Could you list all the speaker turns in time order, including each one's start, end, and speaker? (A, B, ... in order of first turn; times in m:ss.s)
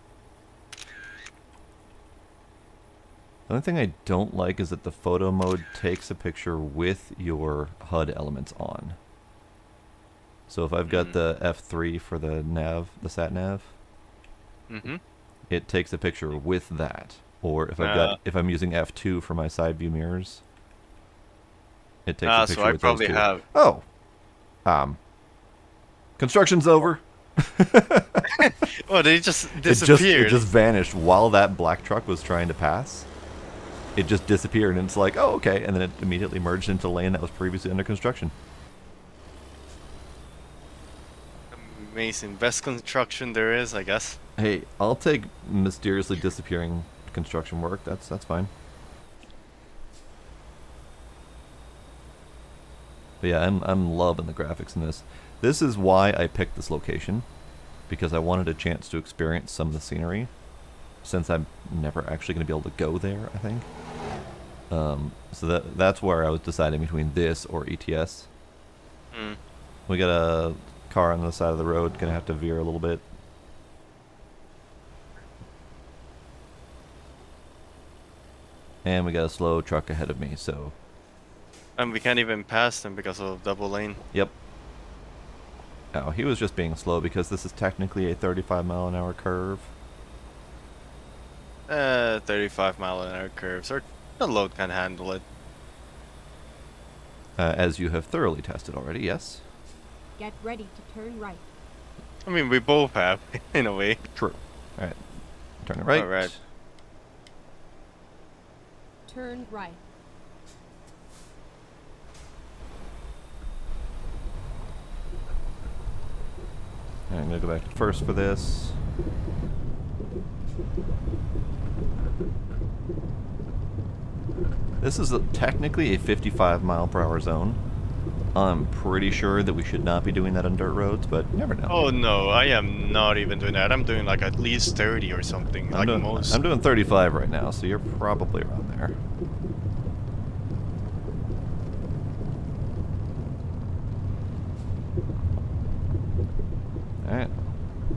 0:03.5-0:09.0 A
0:10.5-0:13.8 A
0:10.9-0:11.2 B
0:14.7-0:15.0 B
0:15.5-0:20.4 A
0:17.8-0:18.2 B
0:22.1-0:23.9 A
0:22.2-0:23.4 B
0:24.6-0:25.0 A
0:26.2-0:28.3 A
0:28.2-0:30.5 B
0:29.6-0:33.1 A
0:34.0-0:38.3 A
0:41.5-0:44.2 B
0:44.4-0:48.5 A
0:53.2-0:57.3 A
0:57.9-1:00.3 A
1:01.0-1:03.7 A
1:04.7-1:08.3 A
1:09.1-1:09.4 B
1:09.9-1:13.0 A
1:18.8-1:20.8 A
1:21.8-1:24.1 B
1:25.9-1:29.7 A
1:31.7-1:35.2 B
1:37.4-1:39.4 A
1:40.2-1:41.4 C
1:42.3-1:44.0 B
1:44.2-1:45.0 A
1:45.6-1:46.4 A
1:45.9-1:46.3 B
1:49.1-1:49.8 C
1:57.1-1:58.8 A
2:04.8-2:07.6 A
2:08.3-2:11.8 A
2:11.7-2:16.4 B
2:15.7-2:19.0 A
2:27.0-2:27.3 A